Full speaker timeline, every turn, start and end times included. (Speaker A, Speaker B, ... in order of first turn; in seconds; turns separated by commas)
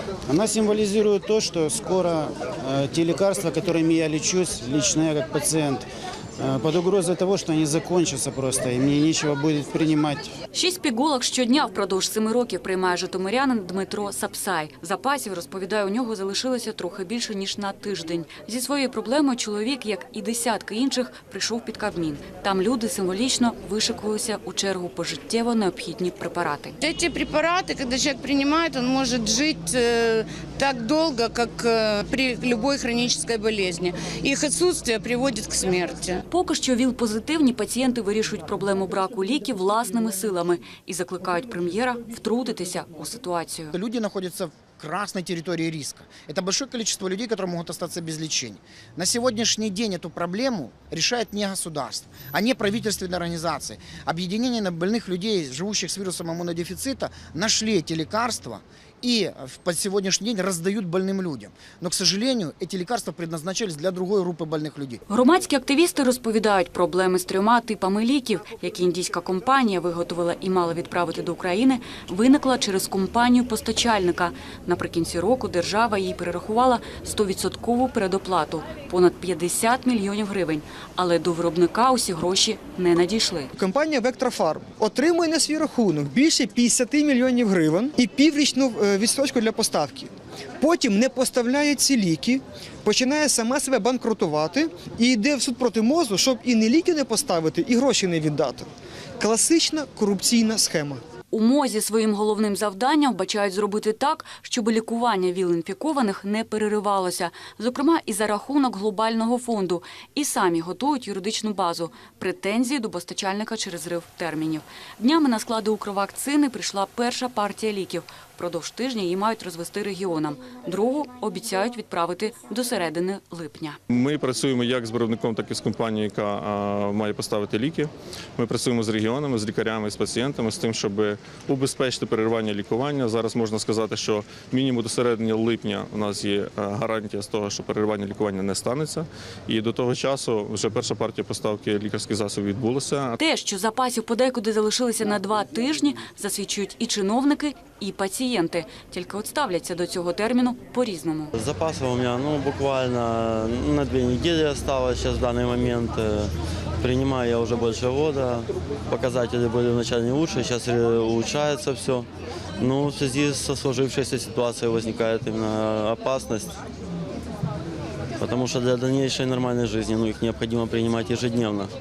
Speaker A: 0.3-5.9, Speaker A: 6.4-10.3, Speaker B: 10.6-26.7, Speaker C: 26.8-36.2, Speaker B: 36.3-43.7, Speaker D: 43.7-65.0, Speaker B: 65.1-83.5, Speaker E: 83.5-101.0, Speaker B: 101.3-123.7, Speaker F: 123.9-143.2, Speaker B: 143.2-151.3, Speaker G: 151.3-166.6, Speaker G: 168.2-171.7